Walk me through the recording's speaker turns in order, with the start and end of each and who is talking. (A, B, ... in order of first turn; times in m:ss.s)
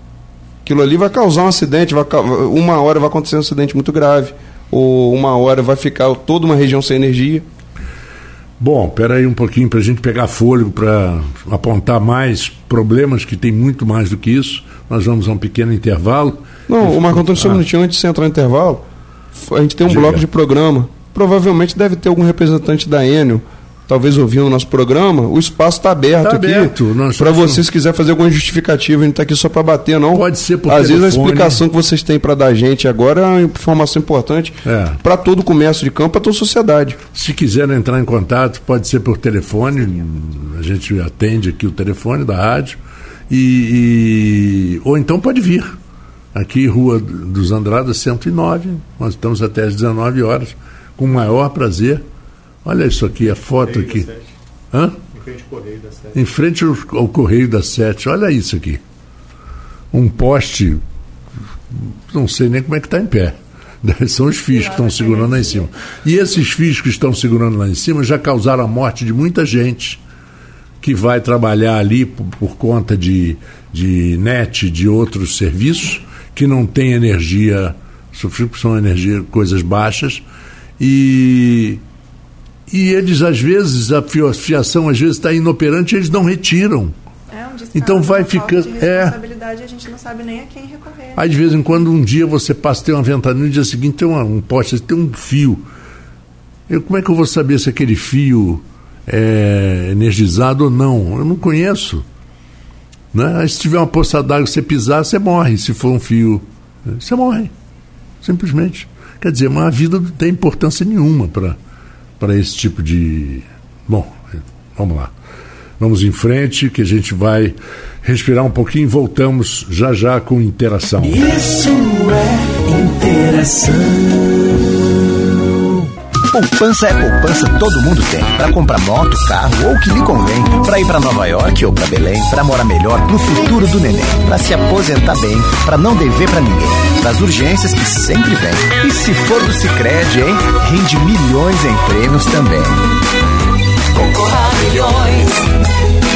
0:00.6-0:07.4 A
0:08.6-0:17.6 B
0:16.7-0:37.0 A
0:19.8-0:20.3 B
0:26.2-0:27.6 B
0:30.1-0:31.6 B
0:34.6-0:35.0 B
0:37.1-0:45.8 B
0:46.3-0:52.0 B
0:52.6-0:54.2 B
0:54.7-0:58.8 B
0:59.9-1:00.8 B
1:01.7-1:10.0 B
1:04.5-1:05.7 C
1:10.8-1:20.2 B
1:20.8-1:21.8 B
1:22.7-1:27.0 B
1:27.3-1:31.2 C
1:27.8-1:29.2 B
1:31.2-1:35.7 B
1:36.7-1:42.0 B
1:43.1-1:47.5 B
1:48.2-1:51.6 B
1:52.2-1:55.1 B
1:55.8-2:01.2 B
2:01.0-2:04.6 D
2:06.3-2:22.8 E
2:23.9-2:25.5 D